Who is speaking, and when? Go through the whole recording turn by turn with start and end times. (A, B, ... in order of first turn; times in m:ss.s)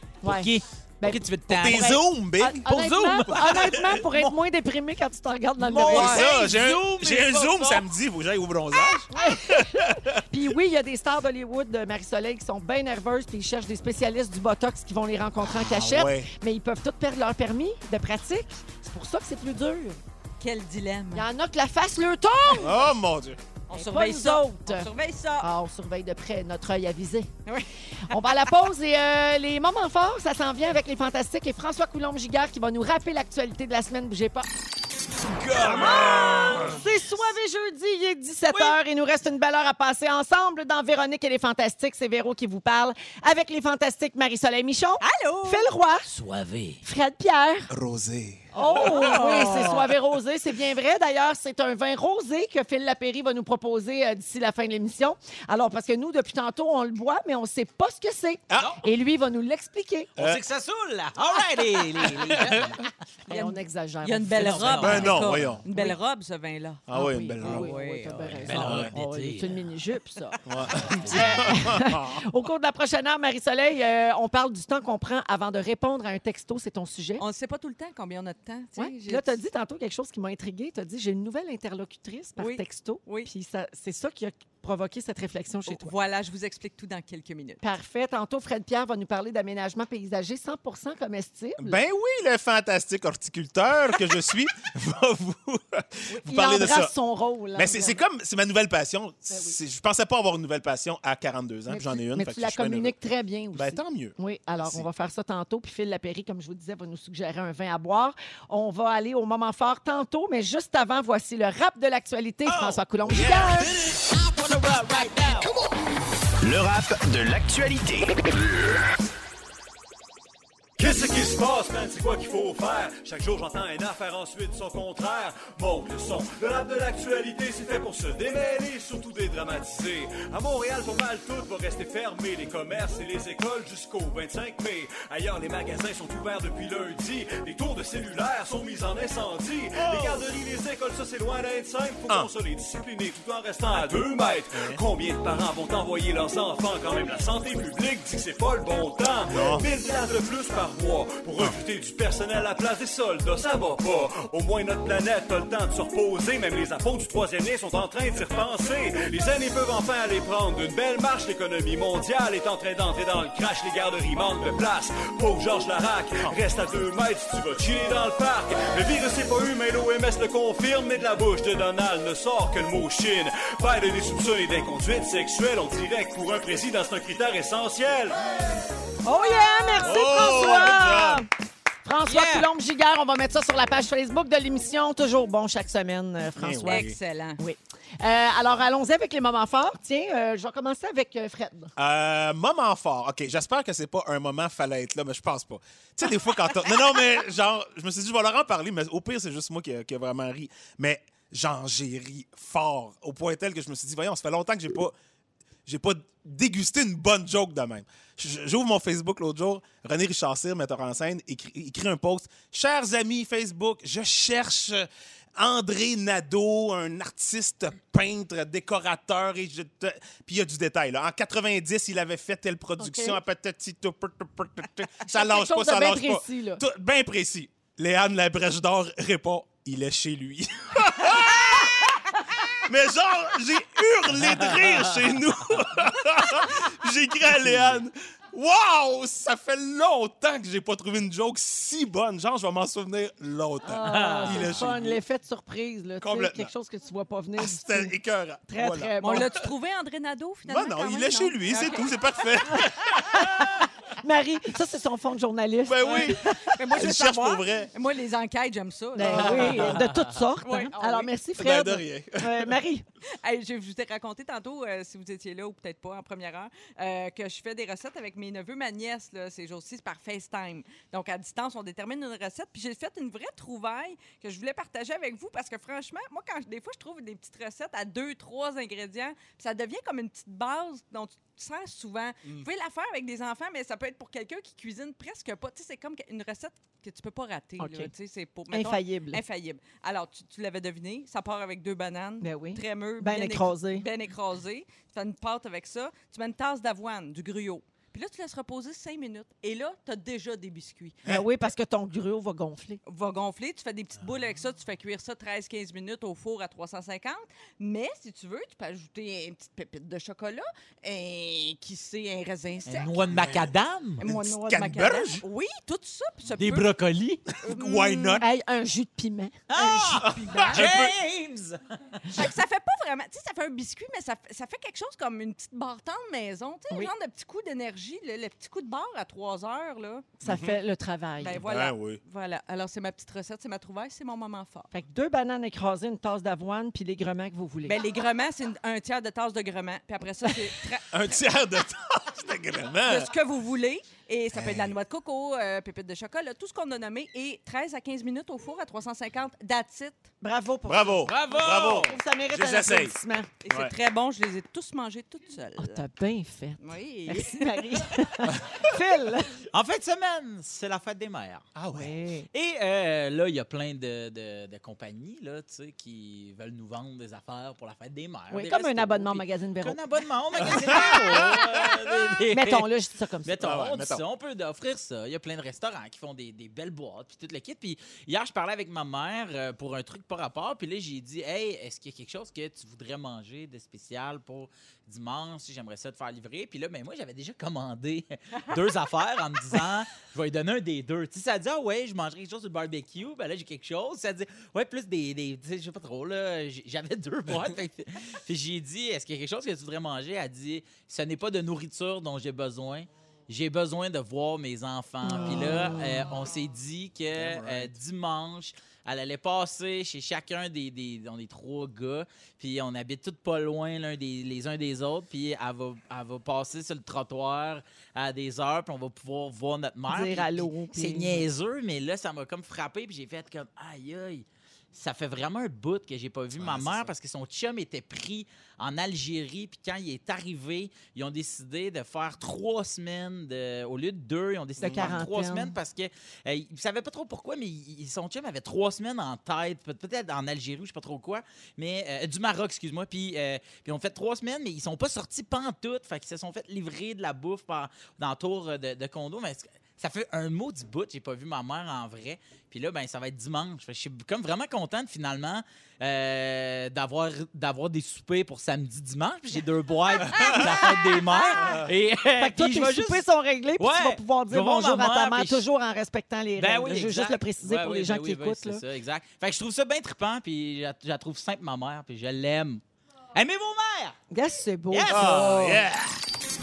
0:00.2-0:06.2 A
0:00.2-0:02.0 B
0:01.5-0:04.3 C
0:02.6-0:03.8 B
0:05.6-0:07.8 B
0:05.7-0:10.4 C
0:05.9-0:06.2 D
0:09.1-0:20.0 A
0:15.5-0:15.8 B
0:15.8-0:16.3 C
0:20.4-0:21.3 D
0:21.1-0:22.7 A
0:22.6-0:23.4 C
0:23.7-0:25.5 D
0:23.7-0:24.9 A
0:25.4-0:27.3 A
0:27.4-0:28.2 D
0:28.1-0:34.5 A
0:35.2-0:36.8 B
0:35.6-0:36.8 C
0:35.6-0:46.0 A
0:38.5-0:38.8 B
0:45.0-0:45.7 D
0:46.1-0:46.8 B
0:46.8-0:47.7 A
0:47.7-0:49.8 C
0:48.5-1:00.1 A
0:48.6-0:49.8 D
0:58.5-0:58.8 C
1:00.2-1:00.4 C
1:00.2-1:02.9 B
1:02.2-1:02.8 C
1:03.3-1:05.1 A
1:03.3-1:06.8 D
1:04.4-1:05.4 B
1:04.8-1:05.6 C
1:05.7-1:06.0 A
1:06.9-1:07.7 C
1:06.9-1:17.2 A
1:07.4-1:08.4 D
1:08.4-1:09.7 B
1:08.4-1:08.9 C
1:10.4-1:12.2 C
1:17.2-1:19.4 D
1:18.8-1:25.9 A
1:22.4-1:23.3 D
1:25.7-1:27.6 D
1:27.6-1:31.8 A
1:31.6-1:36.9 C
1:36.1-1:38.0 A
1:37.5-1:43.0 C
1:39.3-1:39.6 A
1:41.7-1:53.8 A
1:43.5-1:44.8 C
1:52.4-1:55.5 B
1:56.4-1:58.8 E
2:00.8-2:58.2 F
2:19.8-2:20.2 C
2:24.5-2:24.8 C
2:29.3-2:29.6 C
2:59.0-3:01.3 A
2:59.8-3:01.2 C
3:01.8-3:11.7 A
3:02.0-3:02.5 B
3:06.4-3:07.0 C
3:06.6-3:07.4 D
3:11.8-3:24.9 C
3:25.6-4:05.0 C
3:42.8-3:43.2 A
3:45.0-3:46.6 A
3:54.3-3:55.0 B
4:03.6-4:07.9 A
4:03.8-4:04.5 B
4:06.0-4:06.5 C
4:07.4-4:09.4 C
4:08.5-4:09.3 A
4:09.0-4:11.9 D
4:10.4-4:13.6 C
4:12.5-4:16.3 A
4:15.6-4:17.7 C
4:15.8-4:19.8 D
4:19.0-4:22.8 A
4:19.1-4:19.7 C
4:19.4-4:20.0 B
4:20.4-4:21.1 D
4:21.4-4:22.6 C
4:23.2-5:01.0 D
4:47.6-4:47.9 A
4:48.5-4:49.2 A
4:52.2-4:53.8 A
5:01.0-5:02.8 A
5:02.8-5:13.1 D
5:12.6-5:14.0 B
5:13.1-5:15.2 C
5:14.0-5:16.7 D
5:16.4-5:17.2 B
5:17.4-5:18.2 D
5:17.4-5:18.2 C
5:18.2-5:20.5 A
5:19.5-5:22.1 B
5:20.0-5:20.6 D
5:20.0-5:20.9 C
5:22.1-5:30.1 D
5:30.2-5:31.4 A
5:30.2-5:30.6 C
5:31.2-5:34.7 D
5:31.4-5:32.0 C
5:34.7-5:37.8 A
5:37.6-5:41.2 D
5:40.9-5:43.1 C
5:42.8-5:50.1 D
5:44.3-5:44.8 C
5:50.2-5:53.3 A
5:50.6-5:53.0 C
5:51.0-5:51.9 B
5:53.4-5:55.8 D
5:53.5-5:53.7 C
5:55.6-5:59.4 A
5:56.6-5:57.9 D
5:59.5-6:01.5 B
6:01.5-6:02.0 C
6:01.7-6:02.3 A
6:02.3-6:12.7 B
6:08.3-6:09.8 A
6:10.4-6:12.0 C
6:10.4-6:11.0 A
6:12.3-6:13.4 A
6:13.2-7:43.1 B
6:13.4-6:14.0 C
6:45.1-6:46.0 A
6:47.1-6:47.7 C
6:59.9-7:01.2 A
7:06.3-7:06.9 C
7:14.6-7:15.0 C
7:14.6-7:15.5 A
7:42.2-7:48.6 A
7:43.6-7:45.4 B
7:46.4-7:52.6 B
7:53.1-7:54.0 B
7:54.1-7:55.6 A
7:54.7-7:55.6 B
7:54.9-7:56.0 C